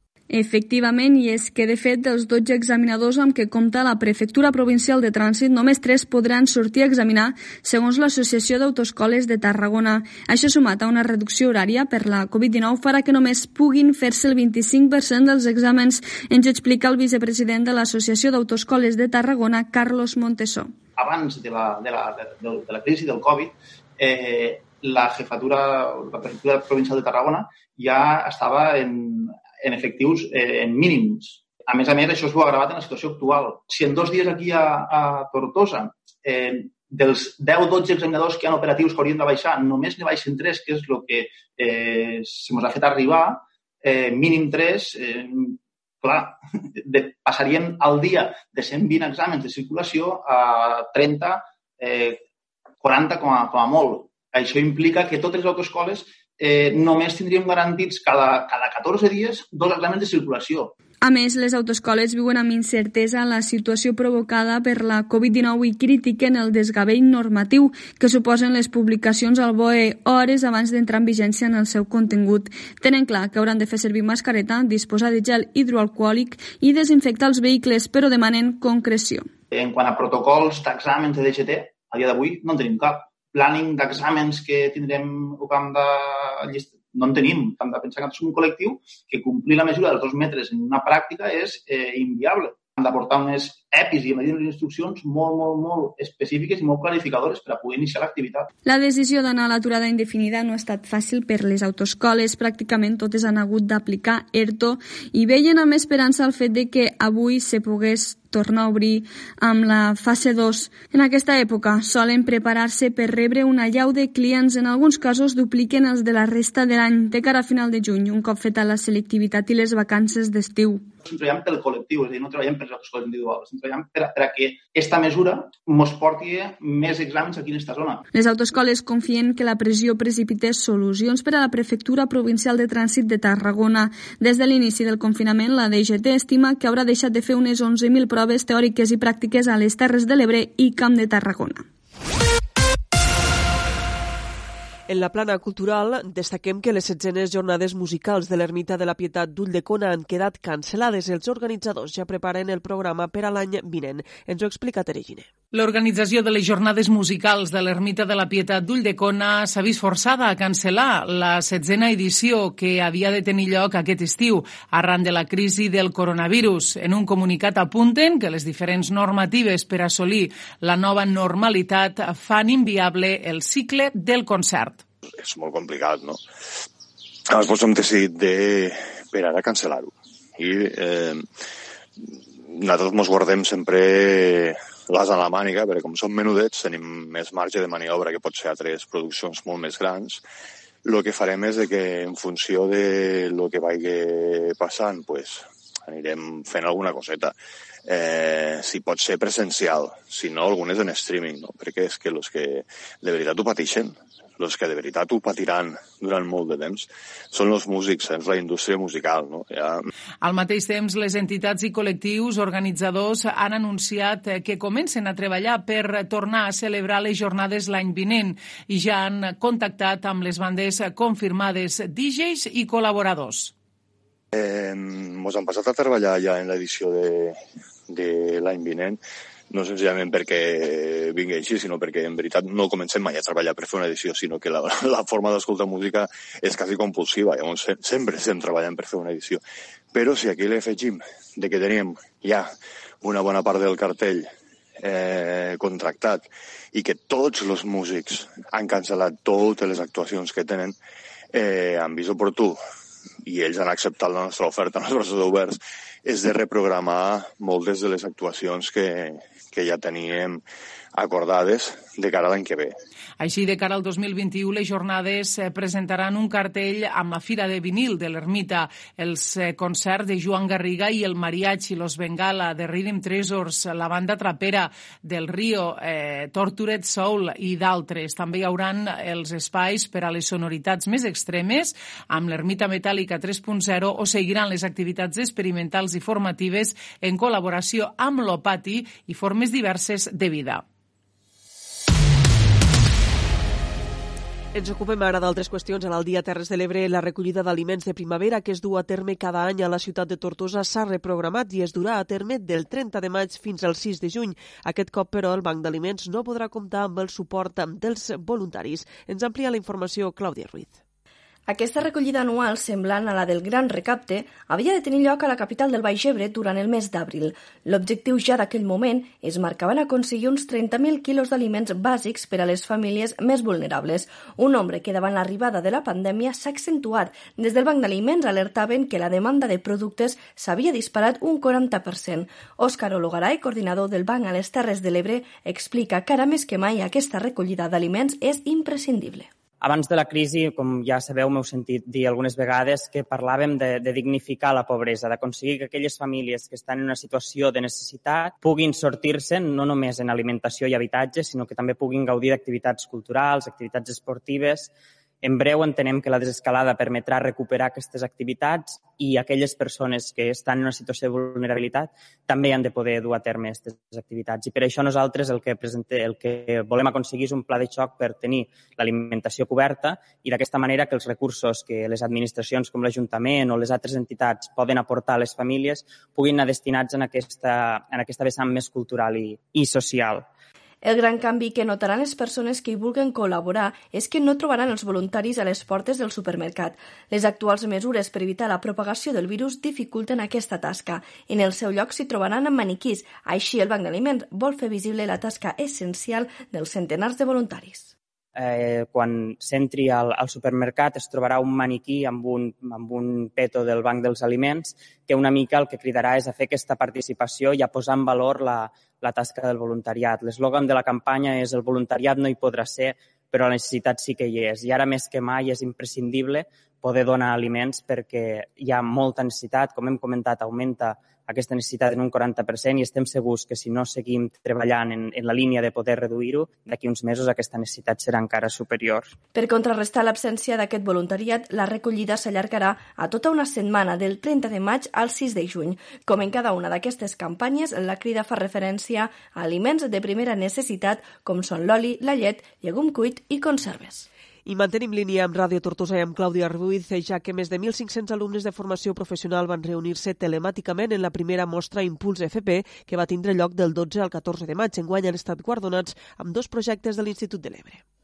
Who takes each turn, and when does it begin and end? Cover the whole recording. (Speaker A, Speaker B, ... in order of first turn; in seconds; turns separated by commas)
Speaker A: 0.3-20.7, Speaker B: 21.0-52.2, Speaker B: 52.8-60.7, Speaker A: 61.0-79.3, Speaker B: 79.5-98.5, Speaker A: 98.7-120.9, Speaker B: 121.0-128.0, Speaker A: 128.1-141.6, Speaker C: 144.9-155.3, Speaker D: 155.5-174.8, Speaker E: 175.1-176.2, Speaker E: 177.3-181.3, Speaker E: 182.0-190.2, Speaker E: 190.8-197.3, Speaker E: 197.9-209.9, Speaker D: 210.2-223.5, Speaker E: 224.3-227.4, Speaker E: 227.9-229.0, Speaker E: 229.5-239.4, Speaker E: 239.9-250.8, Speaker E: 251.3-252.6, Speaker E: 253.2-260.4, Speaker E: 260.9-262.8, Speaker D: 263.2-290.6, Speaker C: 294.5-310.8, Speaker F: 311.5-339.3, Speaker G: 339.6-354.7, Speaker G: 355.2-380.3, Speaker F: 380.8-397.9, Speaker G: 398.4-429.1, Speaker F: 429.3-444.1, Speaker C: 444.4-457.8